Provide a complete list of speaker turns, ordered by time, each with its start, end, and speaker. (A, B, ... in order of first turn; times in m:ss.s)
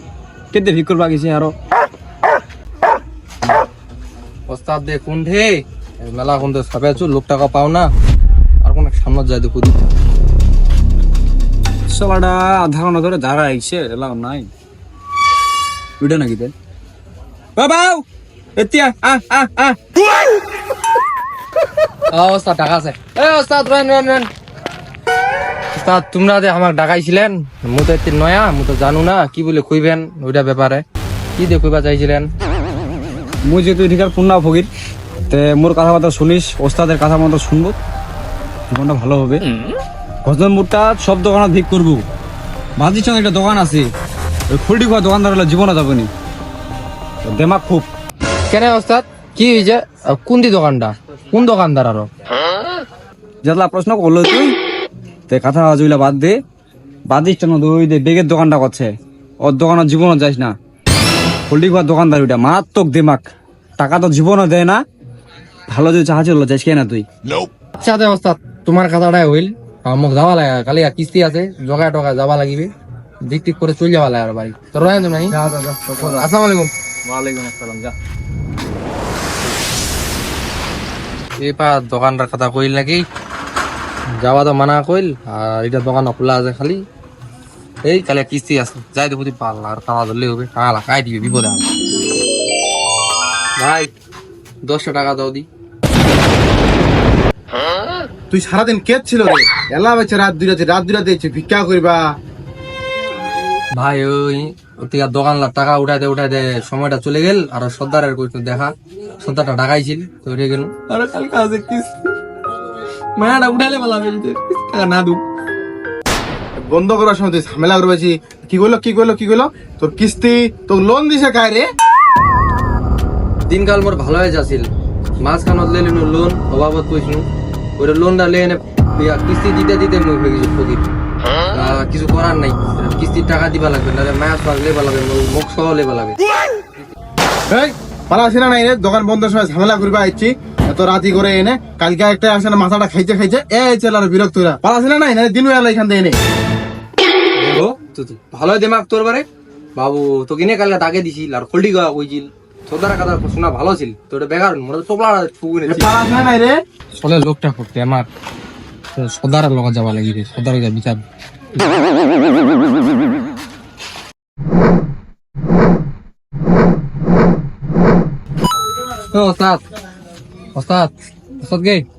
0:00.5-0:01.5 A
0:04.5-0:07.9 B
0:08.6-0:09.9 B
0:11.9-0:14.5 A
0:16.0-0:16.5 A
0:17.6-0:18.0 A
0:18.6-0:19.8 A
0:22.1-0:24.3 B
0:25.8-0:30.8 B
0:31.4-0:32.3 B
0:33.4-0:34.7 A
0:35.3-0:37.8 A
0:38.7-0:39.4 A
0:40.2-0:42.0 A
0:42.8-0:43.9 A
0:44.5-0:46.1 A
0:47.2-0:47.9 A
0:48.5-0:52.1 B
0:53.4-0:54.6 A
0:55.3-0:56.3 A
0:57.1-0:58.9 A
0:59.4-1:00.5 A
1:01.5-1:04.8 A
1:05.7-1:07.1 A
1:07.8-1:12.7 B
1:13.2-1:15.4 B
1:15.3-1:16.3 A
1:16.0-1:16.7 B
1:17.0-1:17.9 A
1:21.4-1:23.0 B
1:24.2-1:26.8 B
1:27.9-1:31.6 B
1:33.6-1:33.9 B
1:34.6-1:35.4 B
1:38.3-1:42.0 C
1:43.8-1:52.1 B
1:53.2-1:55.2 B
1:56.6-2:01.7 C
2:03.5-2:04.7 B
2:05.2-2:07.2 B
2:07.8-2:10.9 B
2:11.5-2:16.2 B
2:17.5-2:26.2 C
2:27.4-2:29.2 B
2:29.8-2:36.0 B
2:35.7-2:36.6 C
2:37.0-2:38.1 B
2:39.0-2:41.0 B
2:49.1-2:49.6 B
2:50.6-2:51.8 B